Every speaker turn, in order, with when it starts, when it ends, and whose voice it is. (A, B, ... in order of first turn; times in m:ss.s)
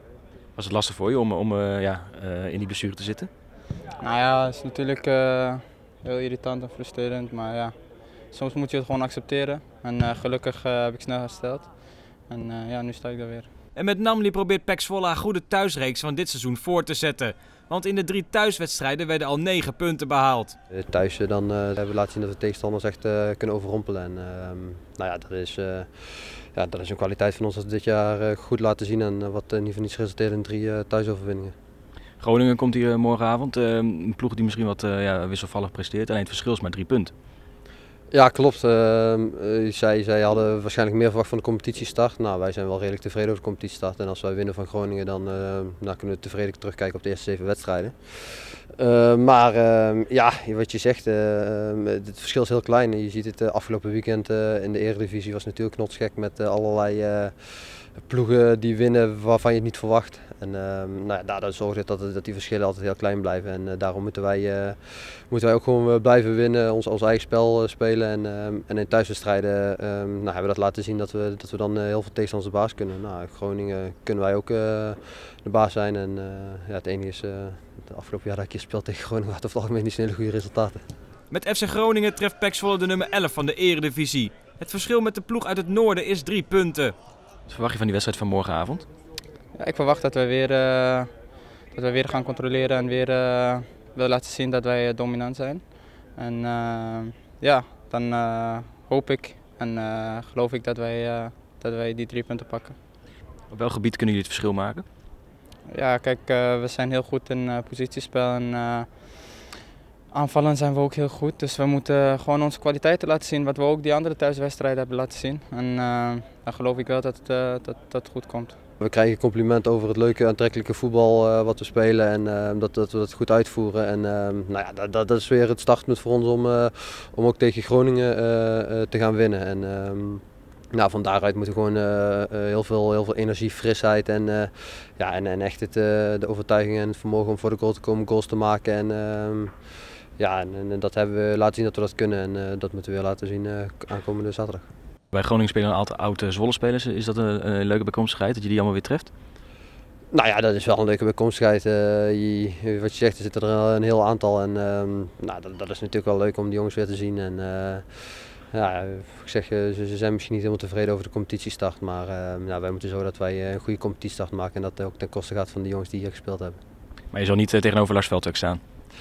0:00.6-0:03.3 A
0:04.0-0:07.8 B
0:08.3-0:13.5 B
0:13.8-0:20.6 C
0:20.7-0:31.5 D
0:32.2-0:37.1 A
0:38.1-1:20.8 D
1:21.3-1:27.0 C
1:27.5-1:28.9 A
1:29.6-1:31.1 B
1:31.7-1:42.8 B
1:43.5-1:44.8 A
1:45.7-1:49.5 B
1:50.1-1:58.6 B
1:58.8-2:24.7 D
2:25.1-2:29.1 A
2:30.1-2:46.6 D
2:47.1-2:48.6 A